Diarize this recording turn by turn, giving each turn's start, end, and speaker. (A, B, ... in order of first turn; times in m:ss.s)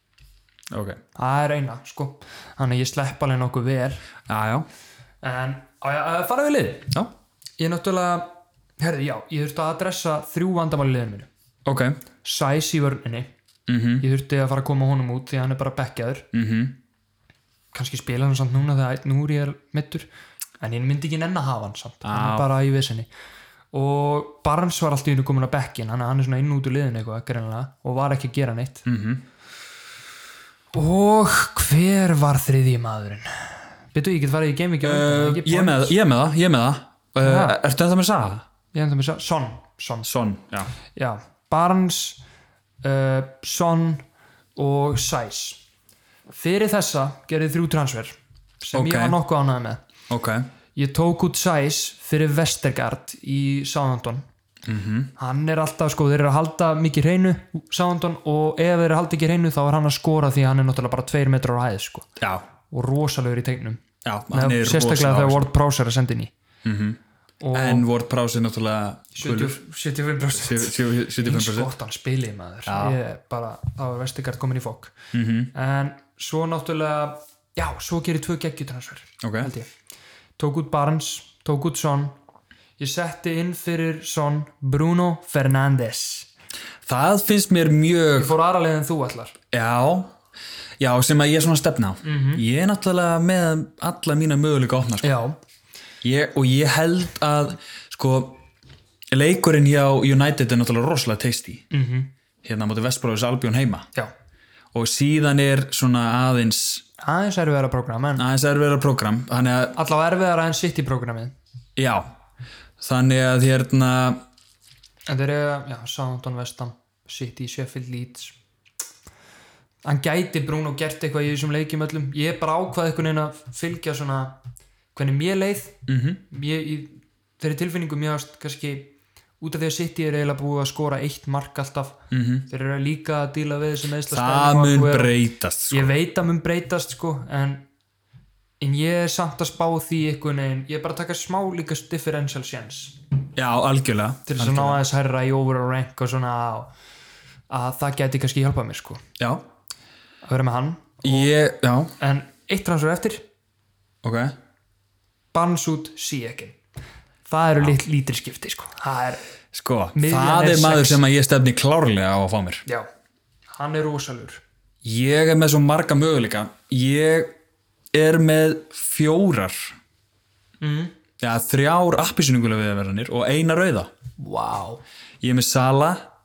0:00.7-0:01.0 A
0:01.2-0:04.0 B
0:04.3-0:04.7 A
0:05.2-0:06.9 B
0:07.6-0:11.3 B
0:11.6-0:12.0 A
0:12.2-0:13.3 B
0:13.7-0:14.0 A
0:14.0-0:16.3 B
0:16.3-0:16.8 A
0:17.7-0:20.1 B
0:20.6-0:23.1 B
0:22.0-0:22.5 A
0:23.7-0:28.8 B
0:28.8-0:29.2 A
0:30.7-0:35.9 B
0:34.8-0:38.4 A
0:37.2-0:37.6 B
0:38.7-0:40.1 B
0:40.0-0:40.7 A
0:40.9-0:42.2 B
0:42.8-0:44.0 B
0:44.6-0:45.6 B
0:46.3-0:49.8 B
0:48.7-0:49.2 A
0:50.1-0:50.4 A
0:50.7-0:54.2 B
0:54.6-0:55.1 A
0:55.2-1:02.1 B
1:02.2-1:02.4 A
1:02.7-1:06.3 B
1:04.0-1:05.5 A
1:06.6-1:07.0 A
1:07.4-1:07.8 B
1:07.5-1:09.6 A
1:09.1-1:14.9 B
1:10.3-1:11.7 A
1:12.6-1:13.0 A
1:15.1-1:15.5 A
1:15.5-1:19.7 B
1:19.2-1:19.5 A
1:20.4-1:22.1 B
1:22.8-1:26.3 B
1:26.8-1:28.3 A
1:28.1-1:29.3 B
1:29.5-1:30.1 A
1:30.8-1:35.1 A
1:32.0-1:32.4 B
1:35.0-1:35.4 B
1:36.0-1:38.4 A
1:39.1-1:41.6 A
1:41.7-1:42.1 B
1:42.4-1:43.9 A
1:44.7-1:46.8 A
1:47.0-1:48.2 B
1:48.2-1:49.8 A
1:49.7-1:51.3 B
1:51.8-1:52.1 A
1:52.8-1:54.2 A
1:55.1-1:58.3 B
1:59.8-2:04.4 B
2:04.9-2:15.1 B
2:05.9-2:06.2 A
2:12.1-2:12.5 A
2:14.1-2:15.9 A
2:15.7-2:17.7 B
2:18.6-2:23.0 B
2:23.4-2:24.8 A
2:24.2-2:26.7 B
2:27.5-2:29.0 B
2:30.2-2:31.3 B
2:31.0-2:31.9 A
2:32.0-2:33.2 B
2:34.0-2:34.3 A
2:35.3-2:36.6 B
2:37.2-2:39.2 B
2:39.5-2:42.6 A
2:39.9-2:41.0 B
2:43.5-2:44.4 B
2:44.8-2:47.3 A
2:47.9-2:49.7 A
2:50.6-2:50.9 B
2:51.2-2:53.9 A
2:54.2-2:54.8 B
2:55.2-2:56.1 A